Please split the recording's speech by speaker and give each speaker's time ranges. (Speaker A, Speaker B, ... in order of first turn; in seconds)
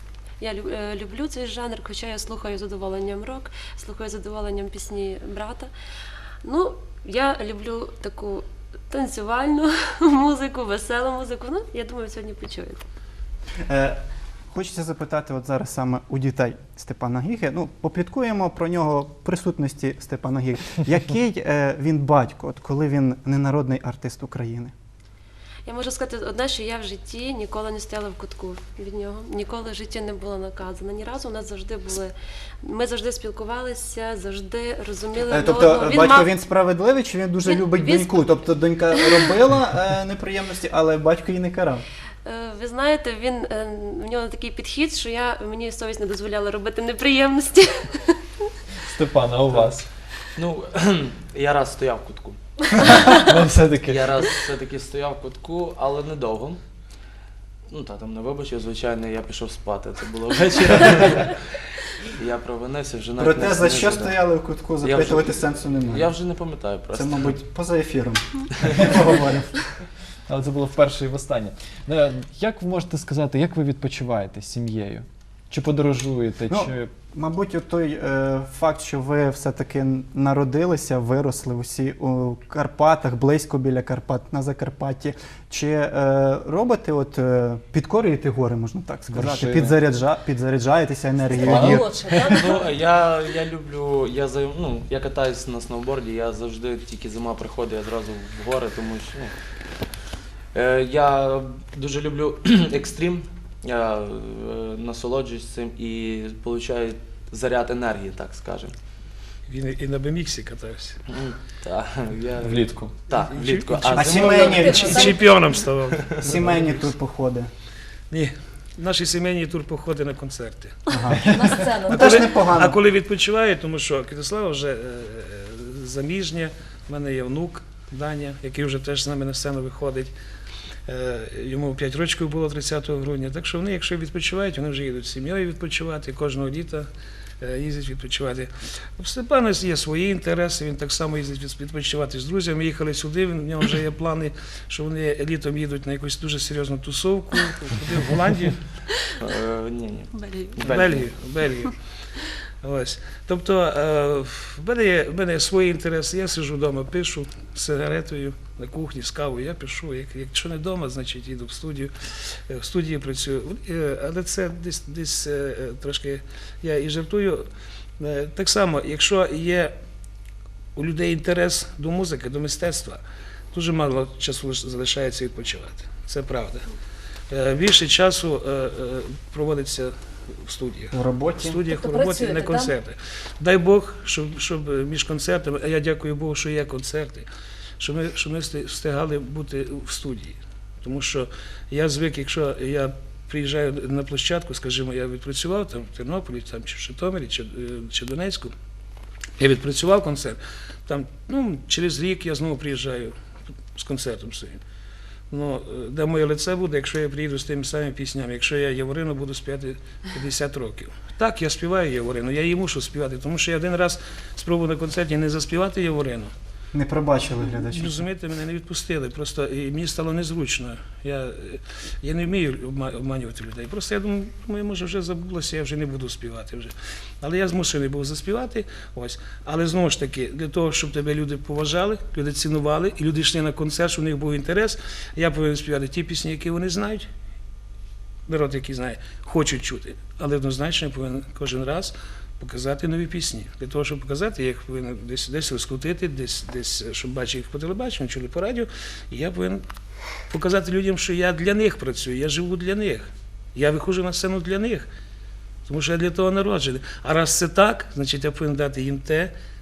Speaker A: 0.4-5.7, 6.4-12.8, 25.6-36.3, 37.4-38.3, 38.9-39.3, 42.2-48.5, 52.8-53.2, 150.1-150.9
Speaker B: 13.7-14.0, 14.5-24.7, 35.3-41.8, 63.2-66.1, 66.9-69.7, 76.5-91.9, 113.8-115.2, 116.2-117.5, 120.9-121.2, 121.9-122.8, 180.9-181.6, 216.7-218.0
Speaker C: 48.8-49.9, 52.8-54.1, 70.3-76.9, 89.1-89.8, 91.3-92.4, 112.4-112.9
Speaker D: 50.4-52.4, 53.9-56.6, 57.7-67.4, 92.3-99.3, 100.5-108.8, 111.1-114.8, 115.9-116.8, 149.2-151.1
Speaker E: 91.3-92.7, 114.1-115.2, 121.2-122.2, 181.7-182.7
Speaker F: 109.5-111.0, 113.2-116.4, 118.1-120.7, 121.9-130.1, 130.9-136.9, 137.4-148.6, 150.6-151.7, 152.6-167.4, 168.0-169.7, 170.8-173.0, 173.5-176.7, 177.3-187.3, 187.8-198.5, 199.4-203.1, 203.7-204.6, 205.3-216.3, 217.5-237.1, 238.3-249.6, 250.3-254.9, 255.7-259.3